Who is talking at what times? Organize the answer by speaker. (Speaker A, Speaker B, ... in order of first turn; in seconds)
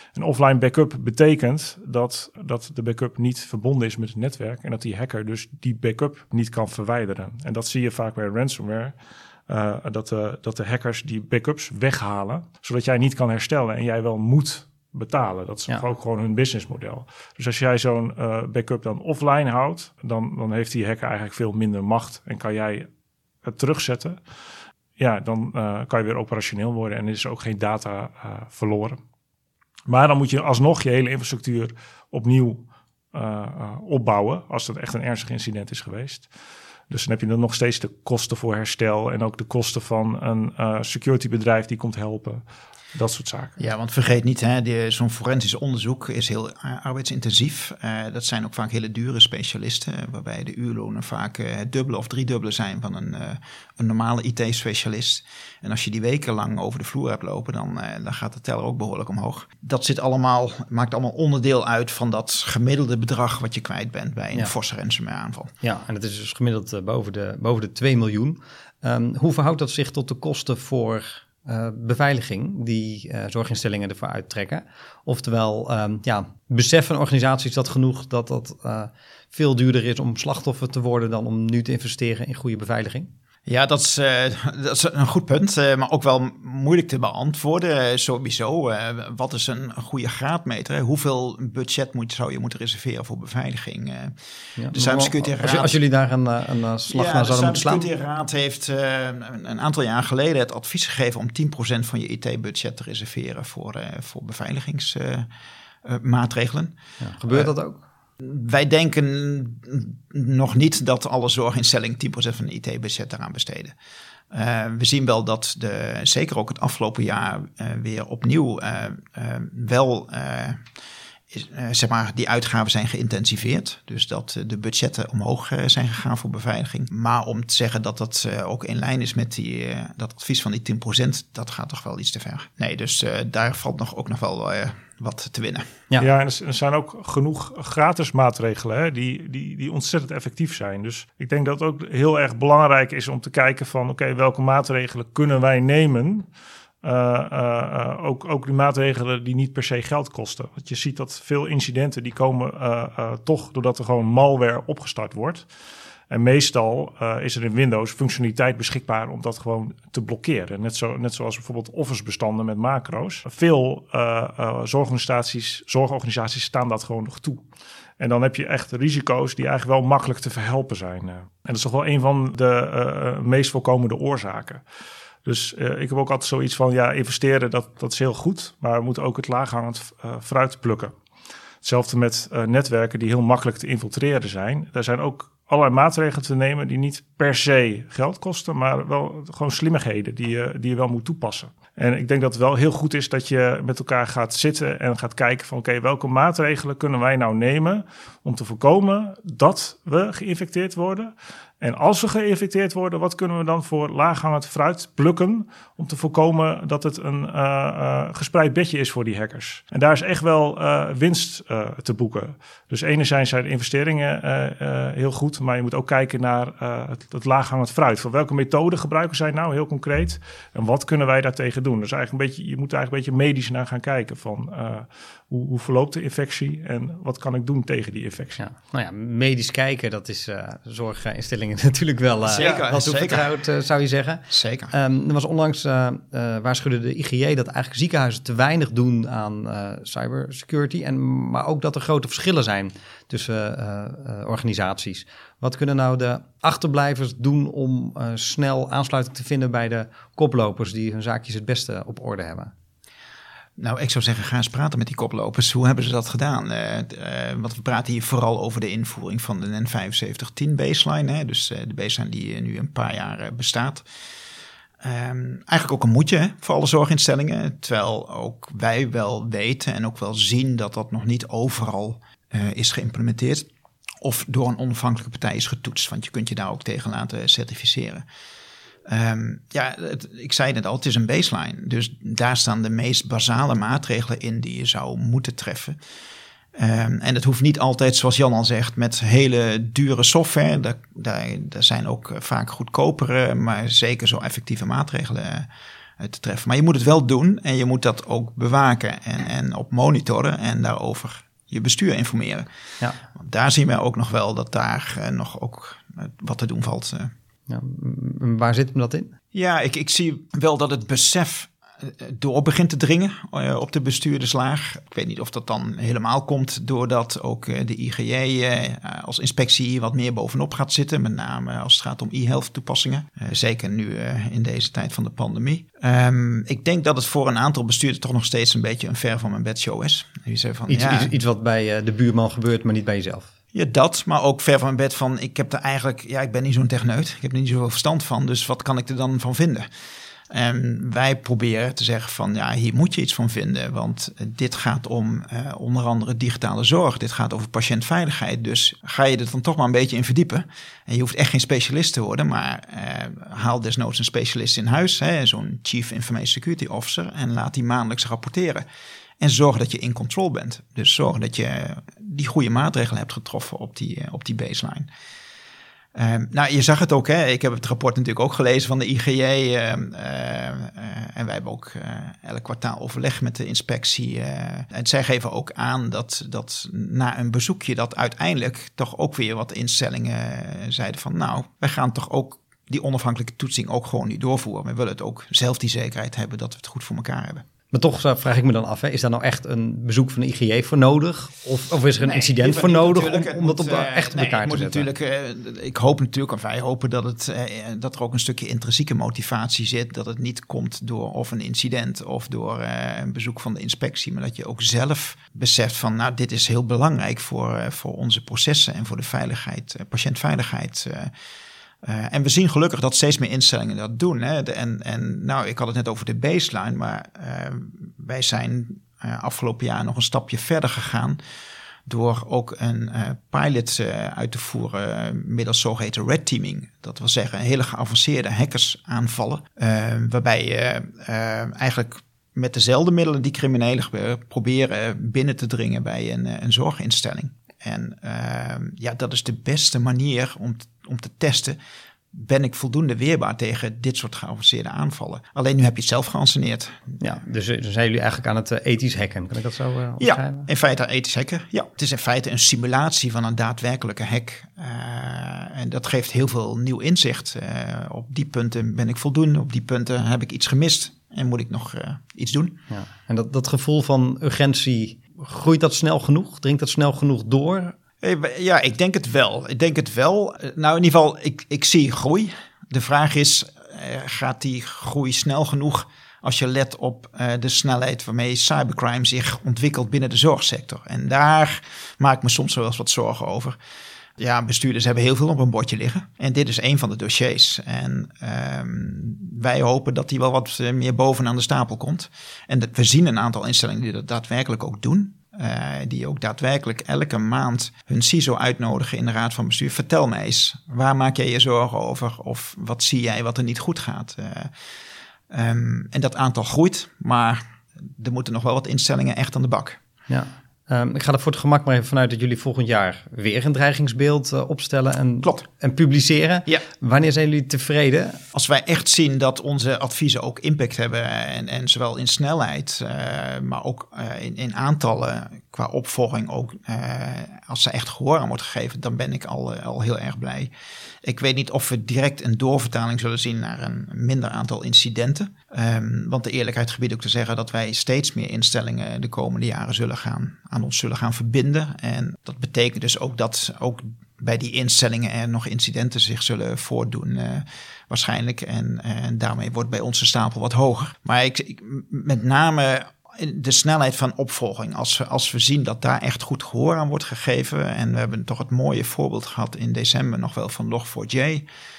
Speaker A: 0.1-8.9, 9.5-22.9, 23.4-24.2, 25.0-29.0, 29.9-36.3, 36.9-42.4, 42.9-43.5, 136.0-146.3, 146.8-155.5, 156.1-167.4, 168.0-174.6, 175.2-180.9, 181.6-228.4
Speaker B: 43.6-65.5, 83.5-94.2, 94.7-95.8, 96.9-105.3, 105.8-106.8, 107.3-107.5, 108.2-113.7, 114.3-120.6, 121.3-135.7, 232.3-233.3, 234.3-234.7, 253.6-263.9, 264.8-273.5, 274.0-278.0, 278.9-285.8, 286.6-302.5, 303.1-307.1, 309.3-331.1, 333.5-339.6, 340.3-358.6, 359.2-364.9, 365.9-387.5, 392.0-411.1, 411.8-421.2, 421.9-441.6, 442.1-447.0, 450.0-462.6, 468.0-483.6, 484.2-504.5, 505.3-509.8, 518.3-530.5, 531.0-561.5
Speaker C: 65.6-83.1, 94.6-97.9, 107.0-107.8, 228.4-252.5, 307.5-309.1, 330.7-333.3, 387.7-394.9, 447.0-450.5, 462.7-467.7, 510.1-518.2